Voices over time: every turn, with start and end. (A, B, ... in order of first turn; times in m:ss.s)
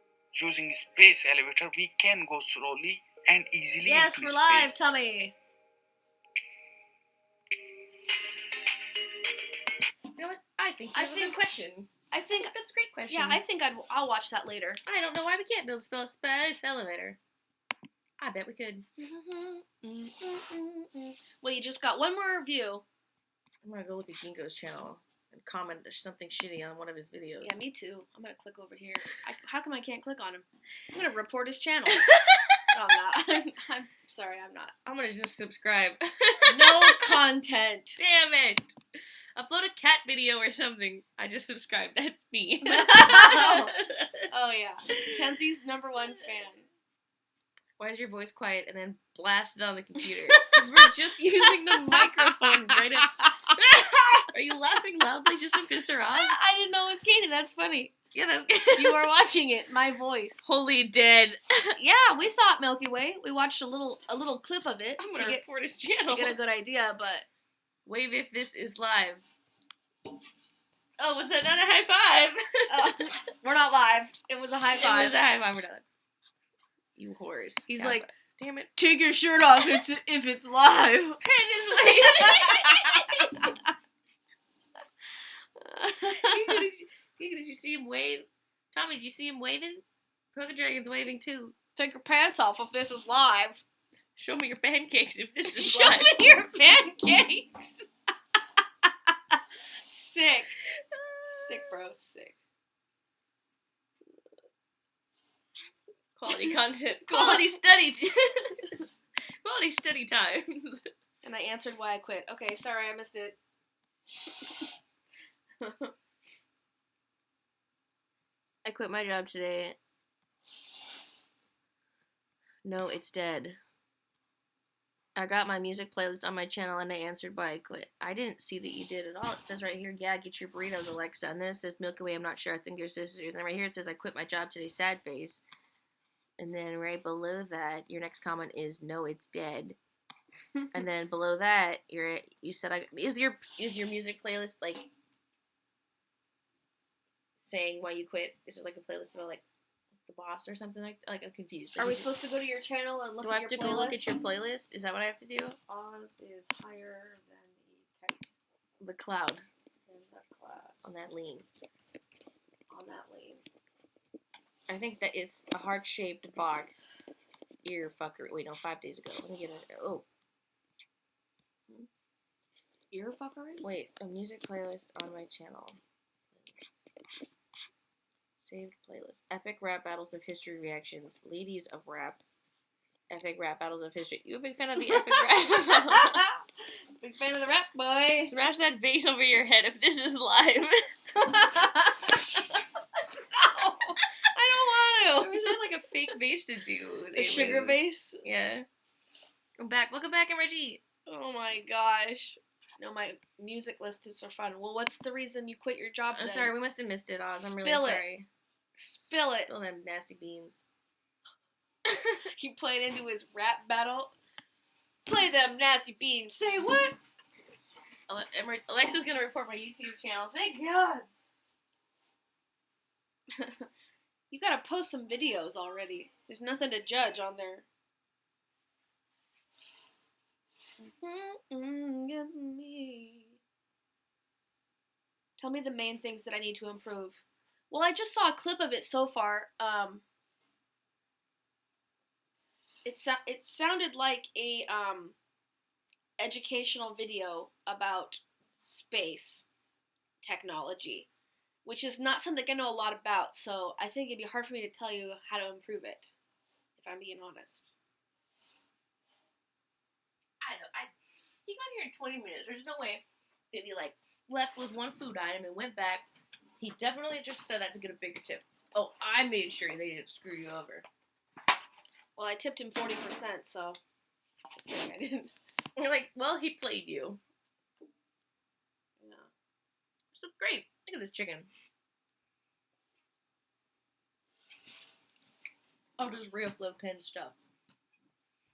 0:00.4-0:05.0 A
0:03.8-0:05.4 B
0:10.2-0:13.4 C
0:10.9-0:11.4 B
0:12.1-0:12.5 B
0:13.1-0:14.8 B
0:14.9-0:17.2 C
0:18.2-0:18.9 C
0:19.0-0:22.8 B
0:23.6-0:27.6 C
0:27.4-0:32.1 B
0:31.9-0:32.6 C
0:32.7-0:34.7 B
0:34.8-0:37.2 C
0:36.5-0:38.0 B
0:38.0-0:38.8 C
0:39.4-0:44.2 C
0:42.7-0:43.7 B
0:44.3-0:46.7 B
0:47.8-0:56.4 C
0:51.9-0:53.3 B
0:56.1-0:58.0 B
0:58.1-0:59.1 C
0:58.7-1:00.5 B
1:00.4-1:01.8 C
1:01.8-1:05.4 B
1:05.0-1:06.4 C
1:06.1-1:07.3 B
1:07.9-1:09.3 C
1:11.0-1:13.0 C
1:12.7-1:15.2 B
1:14.8-1:15.8 C
1:17.0-1:18.7 C
1:17.7-1:18.1 B
1:18.8-1:21.2 B
1:21.2-1:23.5 C
1:21.8-1:23.6 B
1:25.6-1:26.7 B
1:26.1-1:31.5 C
1:31.8-1:33.6 B
1:34.2-1:36.2 C
1:35.5-1:37.9 B
1:38.8-1:40.5 B
1:40.7-1:41.8 C
1:41.2-1:42.4 B
1:46.2-1:48.8 C
1:47.1-1:47.6 B
1:49.4-1:50.9 C
1:51.2-1:53.4 B
1:54.2-1:54.8 B
1:55.6-1:55.9 B
1:58.6-1:59.8 C
2:02.6-2:03.6 C
2:05.2-2:15.4 C
2:16.4-2:19.8 C
2:20.6-2:20.8 B
2:20.7-2:24.9 C
2:27.4-2:29.4 C
2:30.1-2:32.1 C
2:31.8-2:34.1 B
2:33.2-2:35.6 C
2:35.7-2:38.3 B
2:38.8-2:39.4 C
2:39.9-2:40.8 B
2:40.8-2:41.5 C
2:42.7-2:43.4 B
2:44.7-2:46.8 C
2:47.6-2:50.1 C
2:52.9-2:53.7 B
2:53.6-2:55.8 C
2:56.3-2:56.7 C
2:58.4-3:02.2 C
3:03.1-3:06.3 C
3:04.8-3:06.4 B
3:07.0-3:08.4 B
3:08.2-3:10.8 C
3:11.2-3:12.6 B
3:13.3-3:15.6 B
3:15.1-3:18.7 C
3:17.2-3:18.2 B
3:19.6-3:20.8 C
3:21.1-3:26.5 B
3:26.1-3:28.3 C
3:27.3-3:28.0 B
3:28.8-3:29.5 B
3:29.1-3:30.6 C
3:32.0-3:34.2 B
3:35.1-3:37.0 B
3:38.1-3:41.1 C
3:43.4-3:43.7 B
3:44.3-3:47.7 B
3:50.8-3:53.4 B
3:55.4-4:00.0 B
4:02.8-4:05.2 B
4:06.2-4:09.5 B
4:10.2-4:11.1 B
4:11.6-4:16.1 B
4:16.8-4:17.7 B
4:20.4-4:20.9 C
4:21.5-4:30.9 C
4:32.2-4:33.8 B
4:34.5-4:35.3 B
4:35.8-4:37.2 C
4:39.0-4:39.3 B
4:40.1-4:41.5 C
4:46.0-4:47.4 C